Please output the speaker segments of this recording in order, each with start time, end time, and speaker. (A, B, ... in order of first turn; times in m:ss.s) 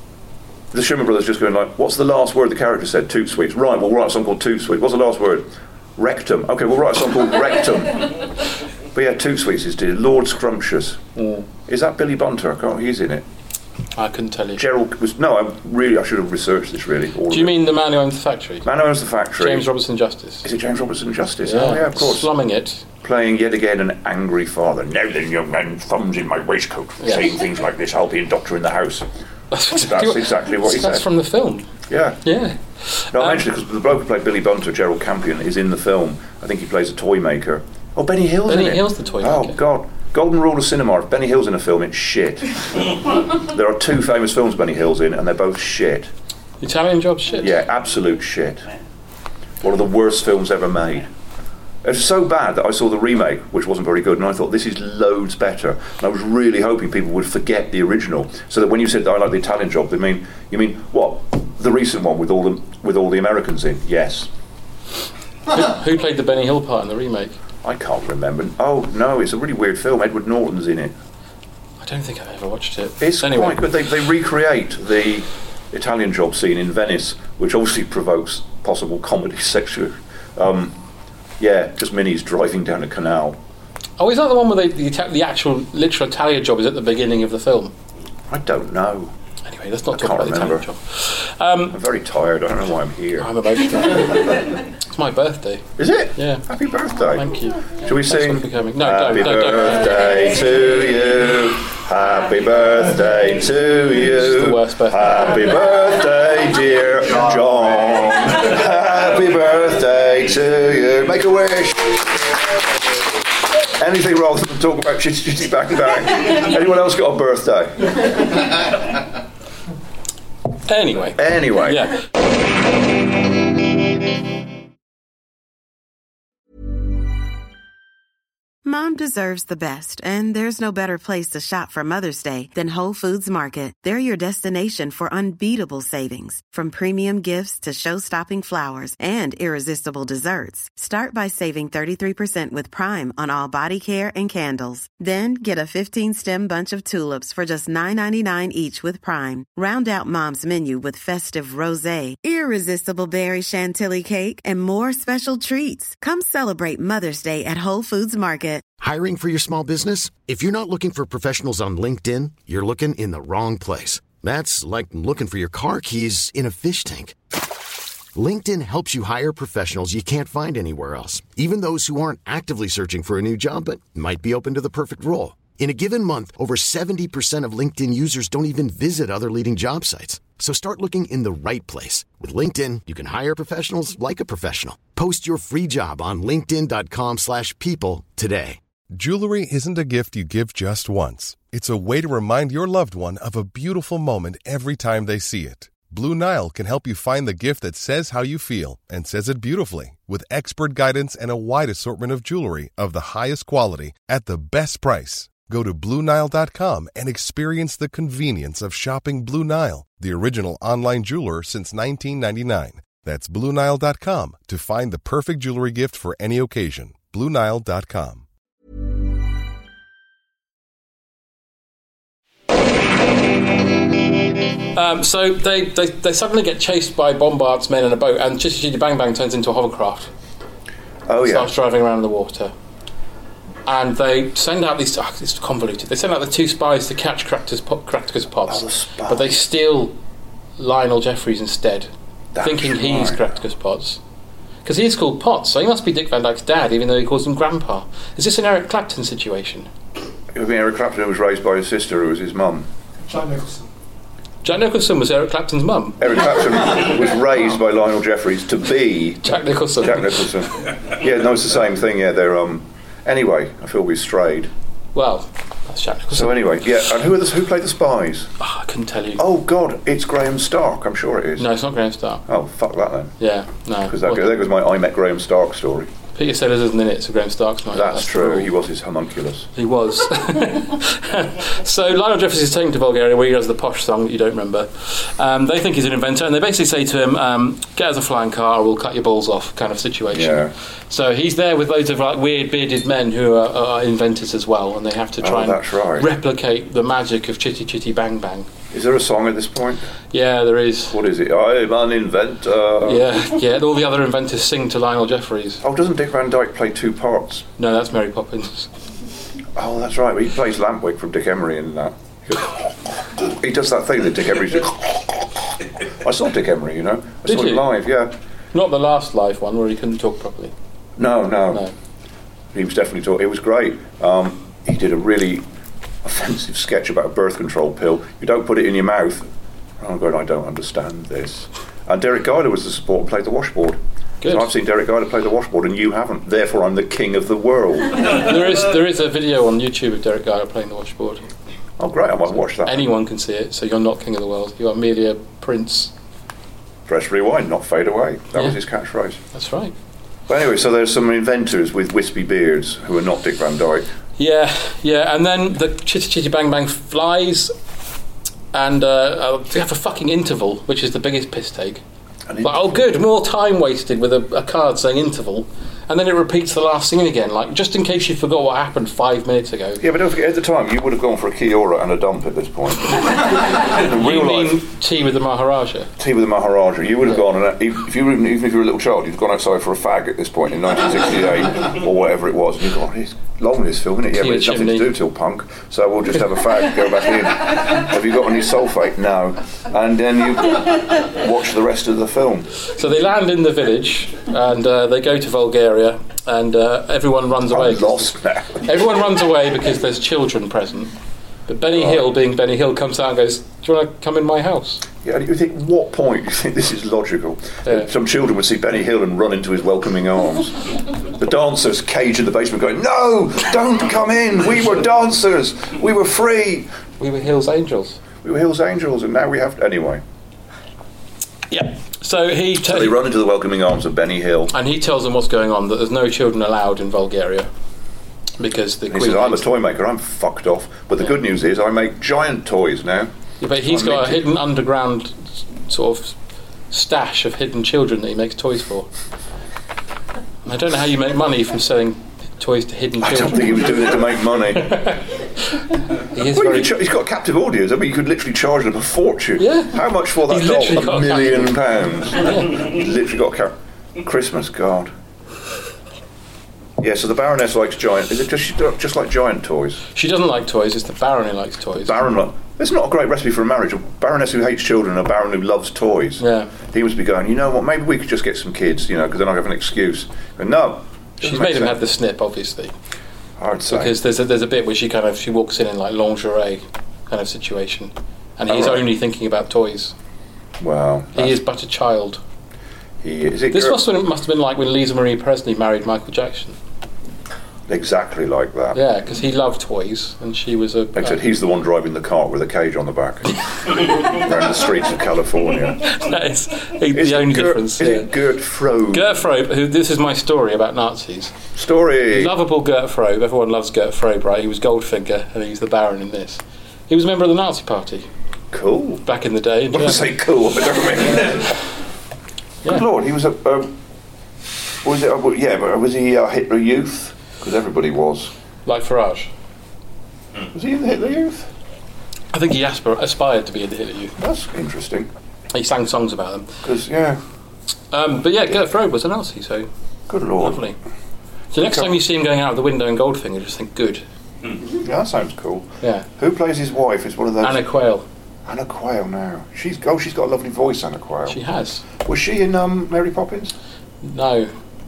0:00.7-0:13.2 A
0:14.0-0:14.6 B
0:14.6-0:17.6 A
0:17.3-0:18.6 B
0:18.6-0:19.7 A
0:19.4-0:20.4 B
0:20.4-0:22.3 A
0:21.4-0:22.8 B
0:23.0-0:29.1 A
0:27.0-0:27.3 B
0:29.5-0:31.7 B
0:29.7-0:31.0 A
0:31.9-0:32.2 A
0:32.2-0:33.4 B
0:33.1-0:46.1 A
0:38.5-0:39.6 B
0:46.6-0:47.5 B
0:47.4-0:48.7 A
0:49.6-0:51.1 A
0:51.8-1:04.3 A
1:05.5-1:07.3 B
1:07.6-1:10.9 A
1:11.8-1:13.6 B
1:13.0-1:20.8 A
1:21.4-1:23.4 A
1:24.0-1:27.7 B
1:28.3-1:29.1 A
1:29.4-1:31.8 B
1:29.9-1:30.6 A
1:31.7-1:33.3 A
1:33.2-1:36.4 B
1:35.8-1:52.2 A
1:37.1-1:39.8 B
1:44.1-1:45.0 B
1:53.8-1:58.3 A
2:00.7-2:02.0 B
2:01.2-2:01.9 A
2:08.6-2:38.6 C
2:38.8-2:47.2 D
2:48.1-3:08.6 D
3:08.9-3:38.2 E
3:44.7-3:50.1 B
3:51.1-3:51.5 A
3:51.2-3:52.5 B
3:53.6-3:59.9 B
3:58.5-3:59.4 A
4:00.6-4:01.9 B
4:02.3-4:03.3 A
4:02.4-4:04.0 B
4:04.6-4:09.7 B
4:10.3-4:12.7 A
4:14.4-4:16.0 B
4:16.0-4:24.5 A
4:19.2-4:20.2 B
4:24.9-4:26.4 B
4:26.1-4:28.3 A
4:28.4-4:29.2 B
4:29.2-4:31.5 A
4:31.4-4:32.2 B
4:32.2-4:33.1 A
4:33.2-4:34.2 B
4:33.9-4:35.9 A
4:36.1-4:38.5 B
4:37.7-4:39.5 A
4:39.6-4:58.5 B
4:50.1-4:50.5 A
4:55.2-4:56.1 A
4:58.7-4:59.9 A
5:00.1-5:01.0 B
5:00.9-5:03.2 A
5:02.8-5:05.6 B
5:05.6-5:07.5 A
5:07.6-5:08.7 B
5:09.6-5:18.1 A
5:17.2-5:17.7 B
5:18.5-5:20.5 B
5:21.0-5:21.6 A
5:22.5-5:25.4 A
5:26.0-5:29.3 A
5:29.8-5:38.2 A
5:34.2-5:34.5 B
5:38.1-5:41.3 B
5:41.8-5:42.9 A
5:42.6-5:45.9 B
5:46.8-5:49.2 A
5:49.3-5:49.7 B
5:50.3-5:53.9 A
5:54.2-5:57.5 B
5:58.5-6:01.8 B
6:02.3-6:02.8 A
6:02.4-6:09.8 B
6:09.8-6:14.6 A
6:13.7-6:15.9 B
6:16.0-6:32.5 A
6:24.1-6:24.9 B
6:32.8-6:40.9 B
6:37.5-6:38.7 A
6:41.5-6:44.8 B
6:41.7-6:42.0 A
6:45.0-6:56.7 A
6:57.0-6:58.0 B
6:58.2-7:00.0 A
7:01.5-7:03.0 B
7:02.6-7:04.5 A
7:04.5-7:07.5 B
7:08.4-7:09.4 B
7:08.9-7:14.2 A
7:13.4-7:16.1 B
7:16.7-7:18.9 B
7:20.4-7:24.0 B
7:23.0-7:24.7 A
7:24.6-7:26.7 B
7:26.2-7:34.9 A
7:29.4-7:31.6 B
7:36.8-7:39.8 A
7:39.9-7:42.0 B
7:41.8-7:51.8 A
7:46.2-7:46.5 B
7:51.2-7:52.7 B
7:53.4-7:53.9 A
7:53.7-7:59.9 B
7:58.5-7:58.8 A
8:00.6-8:01.4 A
8:01.1-8:02.2 B
8:03.0-8:03.8 A
8:03.5-8:06.6 B
8:07.7-8:08.8 A
8:08.7-8:11.2 B
8:10.9-8:15.9 A
8:15.8-8:18.1 B
8:16.9-8:19.2 A
8:18.9-8:21.3 B
8:21.5-8:22.3 A
8:22.1-8:28.1 B
8:28.5-8:29.0 A
8:29.0-8:30.1 B
8:29.7-8:31.6 A
8:32.6-8:33.7 A
8:34.8-8:38.3 A
8:38.6-8:39.3 B
8:40.5-8:41.5 A
8:42.3-8:44.1 B
8:44.2-8:45.1 A
8:45.5-8:46.5 B
8:46.6-8:47.2 A
8:47.9-8:49.7 B
8:50.1-8:50.6 A
8:50.4-8:50.8 B
8:51.5-8:54.0 B
8:51.6-8:52.0 A
8:54.6-8:57.6 A
8:55.8-8:56.1 B
8:57.4-8:58.0 B
8:58.4-9:01.4 A
9:01.3-9:01.8 B
9:02.0-9:03.5 A
9:04.0-9:04.5 B